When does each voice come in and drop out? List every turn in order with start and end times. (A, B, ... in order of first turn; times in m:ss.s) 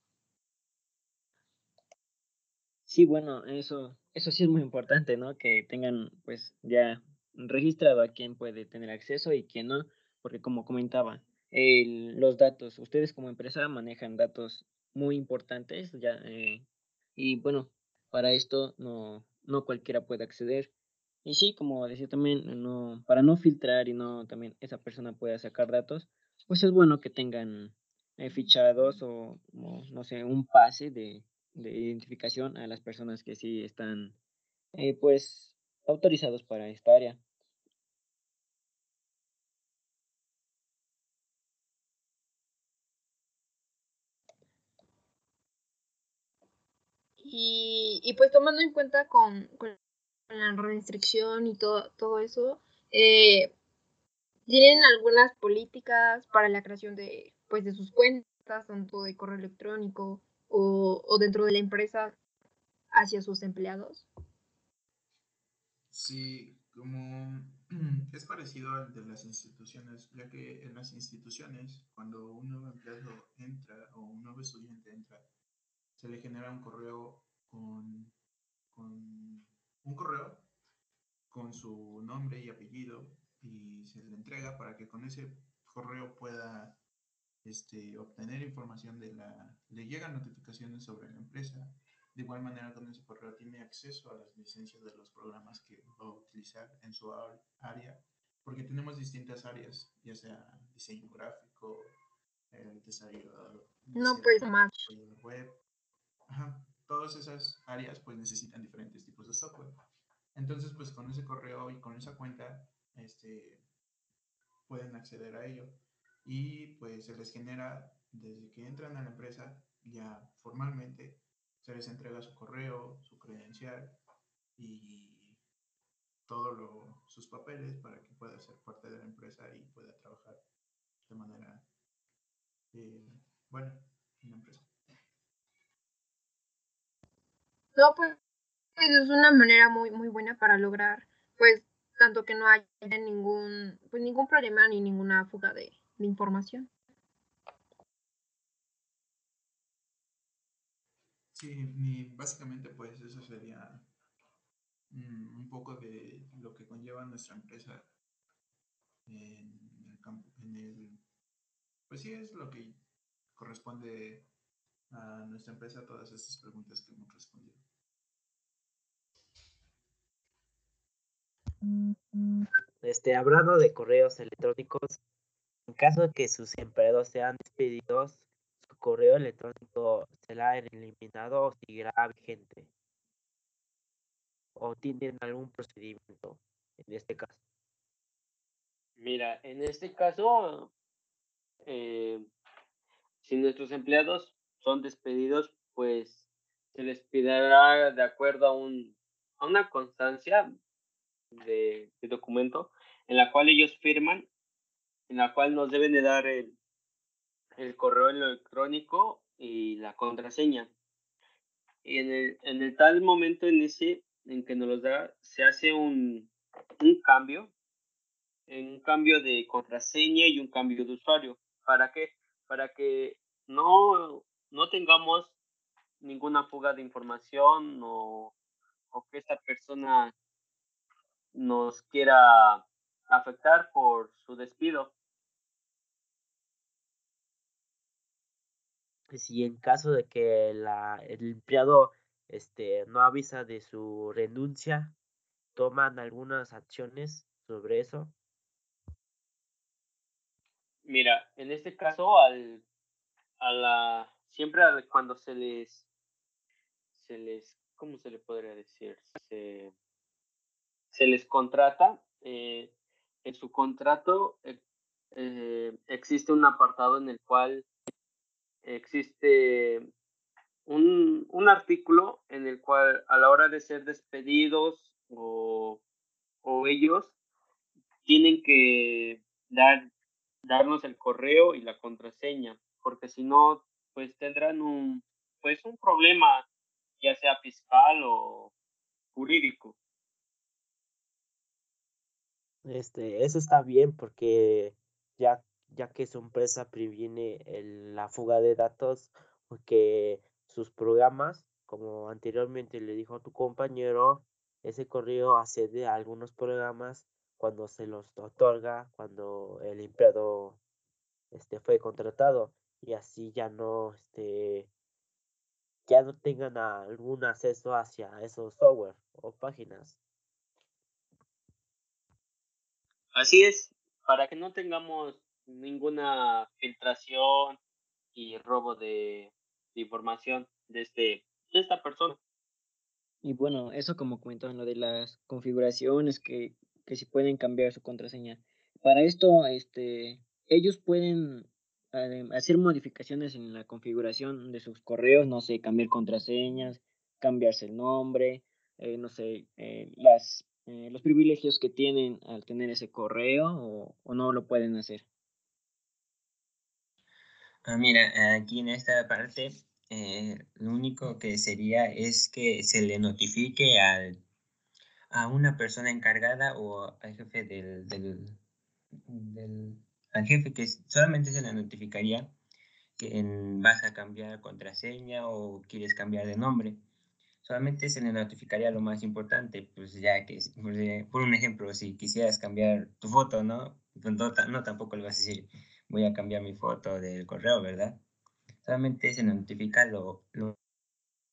0:02.9-0:16.6 A
0:17.2-0:20.7 A
0:21.2-0:34.1 A
0:34.7-0:37.2 A
0:47.2-0:49.8 B
0:50.3-0:53.5 B
0:54.5-1:02.2 B
1:02.9-1:04.1 B
1:05.9-1:15.2 C
1:16.0-1:18.1 C
1:18.7-1:20.5 C
1:21.3-1:26.8 C
1:27.4-1:41.9 C
1:42.5-1:45.5 C
1:44.0-1:44.9 B
1:46.3-1:49.7 C
1:50.3-1:53.6 C
1:54.7-2:04.0 C
2:04.6-2:05.4 C
2:06.3-2:10.4 C
2:11.0-2:11.6 C
2:12.7-2:14.7 C
2:17.8-2:18.2 B
2:18.8-2:26.7 B
2:31.3-2:33.9 C
2:34.9-2:37.9 C
2:39.0-2:41.0 C
2:41.9-2:42.8 C
2:43.3-2:44.3 C
2:44.9-2:47.6 C
2:52.8-2:55.0 D
2:55.7-3:02.7 D
3:04.5-3:07.4 D
3:09.0-3:10.7 E
3:11.6-3:12.3 E
3:13.2-3:20.5 E
3:21.3-3:24.3 E
3:25.1-3:26.6 E
3:27.6-3:30.7 E
3:31.8-3:37.5 E
3:38.5-3:45.4 E
3:46.0-3:48.3 E
3:48.9-3:50.1 E
3:51.3-3:54.9 E
3:59.1-4:04.9 D
4:05.6-4:08.1 D
4:10.8-4:12.6 E
4:13.4-4:15.8 E
4:16.9-4:19.7 E
4:20.9-4:22.7 E
4:23.2-4:24.6 E
4:25.1-4:27.6 E
4:28.6-4:29.9 E
4:30.7-4:35.8 E
4:36.4-4:37.1 E
4:38.0-4:39.9 E
4:40.4-4:46.4 E
4:47.0-4:48.5 E
4:49.1-4:49.7 E
4:52.6-5:10.6 D
5:11.3-5:14.7 D
5:15.9-5:20.0 D
5:23.1-5:27.6 E
5:28.1-5:32.2 E
5:33.2-5:55.0 A
5:57.6-6:04.2 F
6:05.1-6:08.4 F
6:09.1-6:12.3 F
6:13.0-6:16.8 F
6:17.4-6:28.0 F
6:28.6-6:30.6 F